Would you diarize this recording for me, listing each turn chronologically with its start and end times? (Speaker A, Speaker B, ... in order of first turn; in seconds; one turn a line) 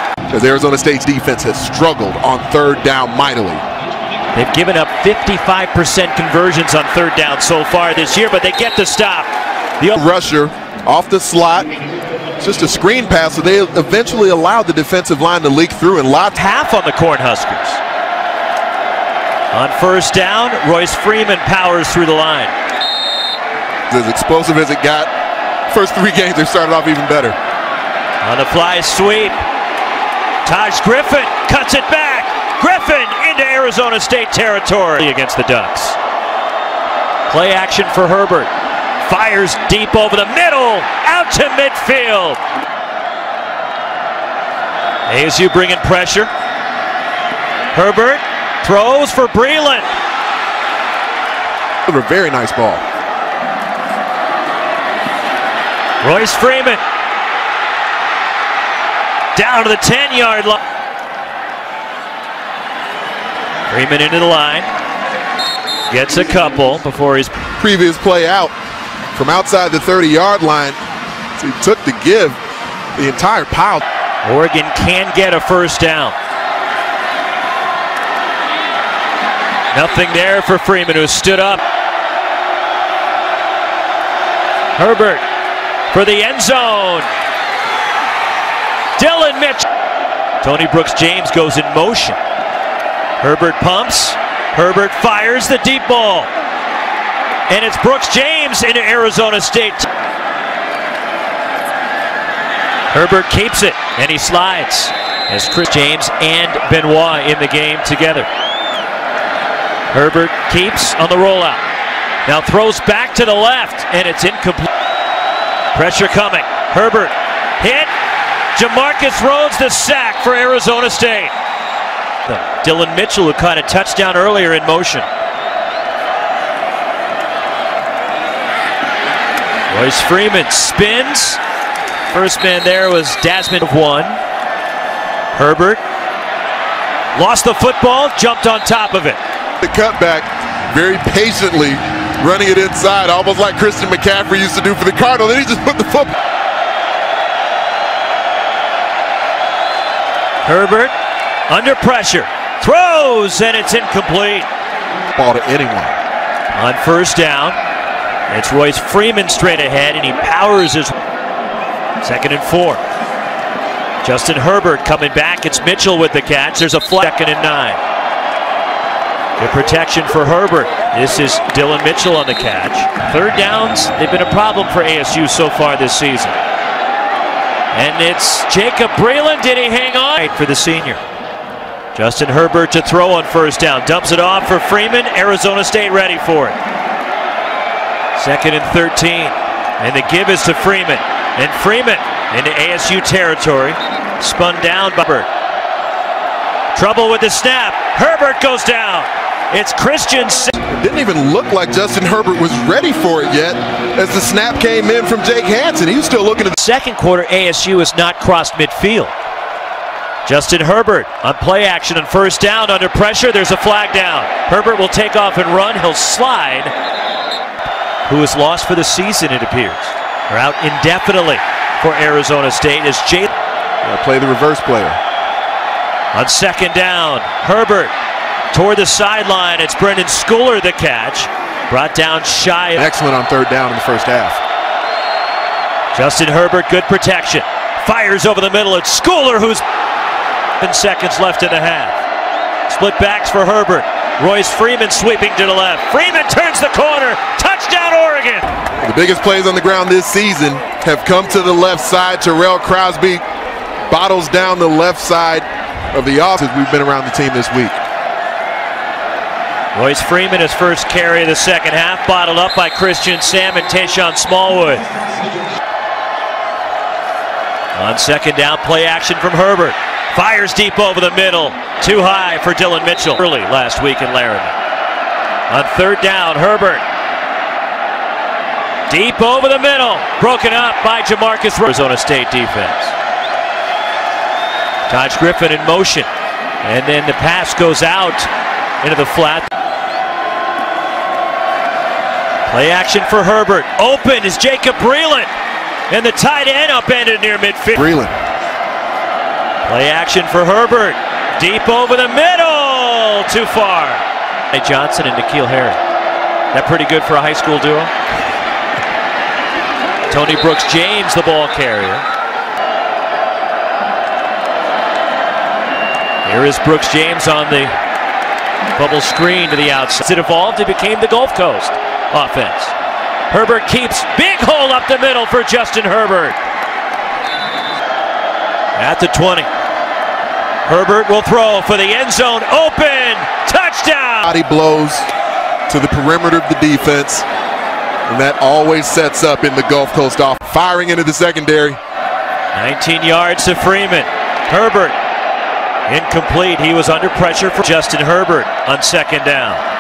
Speaker A: 0.3-3.6
Speaker B: 4.3-9.3
Speaker A: 9.9-11.7
Speaker A: 12.4-16.4
Speaker B: 16.3-17.8
Speaker B: 19.5-22.5
Speaker A: 23.9-25.1
Speaker A: 25.7-27.4
Speaker B: 28.2-29.4
Speaker B: 30.4-36.0
Speaker B: 37.3-38.5
Speaker B: 39.0-42.4
Speaker B: 45.1-46.3
Speaker B: 47.7-49.9
Speaker A: 51.9-52.8
Speaker B: 56.0-56.8
Speaker B: 59.3-60.6
Speaker B: 63.7-64.7
Speaker B: 65.9-67.3
Speaker A: 67.6-68.5
Speaker A: 69.1-70.8
Speaker A: 71.3-72.4
Speaker A: 73.0-73.8
Speaker B: 74.2-76.2
Speaker B: 79.7-81.6
Speaker B: 84.8-85.2
Speaker B: 85.9-87.1
Speaker B: 89.0-89.7
Speaker B: 90.4-92.2
Speaker B: 93.2-96.3
Speaker B: 97.5-99.9
Speaker B: 102.9-108.3
Speaker B: 109.9-111.6
Speaker B: 112.2-114.7
Speaker B: 115.7-117.9
Speaker B: 118.5-121.3
Speaker B: 122.3-125.1
Speaker B: 129.7-131.4
Speaker B: 132.1-134.2
Speaker B: 135.3-135.8
Speaker B: 137.1-139.2
Speaker A: 139.6-146.1
Speaker B: 150.4-150.9
Speaker B: 151.5-154.5
Speaker A: 155.1-155.9
Speaker B: 156.5-157.6
Speaker B: 158.3-160.9
Speaker B: 162.0-162.8
Speaker B: 164.0-167.8
Speaker B: 169.4-176.4
Speaker B: 177.7-181.0
Speaker B: 181.9-186.6
Speaker B: 188.2-195.3
Speaker B: 196.7-200.6
Speaker A: 200.7-206.6
Speaker B: 206.6-209.1
Speaker B: 210.2-216.7
Speaker B: 218.1-223.3
Speaker A: 223.8-225.0
Speaker B: 226.1-227.9
Speaker B: 228.5-232.9
Speaker A: 232.8-234.4
Speaker B: 235.9-239.6
Speaker B: 240.6-242.0
Speaker B: 242.7-248.5
Speaker A: 248.8-253.2
Speaker A: 253.9-257.8
Speaker B: 259.7-264.9
Speaker B: 267.7-274.6
Speaker B: 275.5-276.8
Speaker B: 278.9-282.9
Speaker B: 284.9-286.1
Speaker B: 286.6-288.3
Speaker B: 288.8-289.5
Speaker B: 292.5-295.3
Speaker B: 295.9-297.9
Speaker A: 297.7-298.1
Speaker B: 299.6-305.8
Speaker B: 306.5-307.9
Speaker B: 310.1-312.0
Speaker B: 316.2-317.7
Speaker B: 318.7-322.7
Speaker B: 323.3-326.4
Speaker B: 328.8-329.5
Speaker B: 330.6-334.3
Speaker A: 334.2-335.1
Speaker A: 335.7-337.2
Speaker A: 338.1-341.8
Speaker B: 342.5-345.0
Speaker B: 345.9-349.6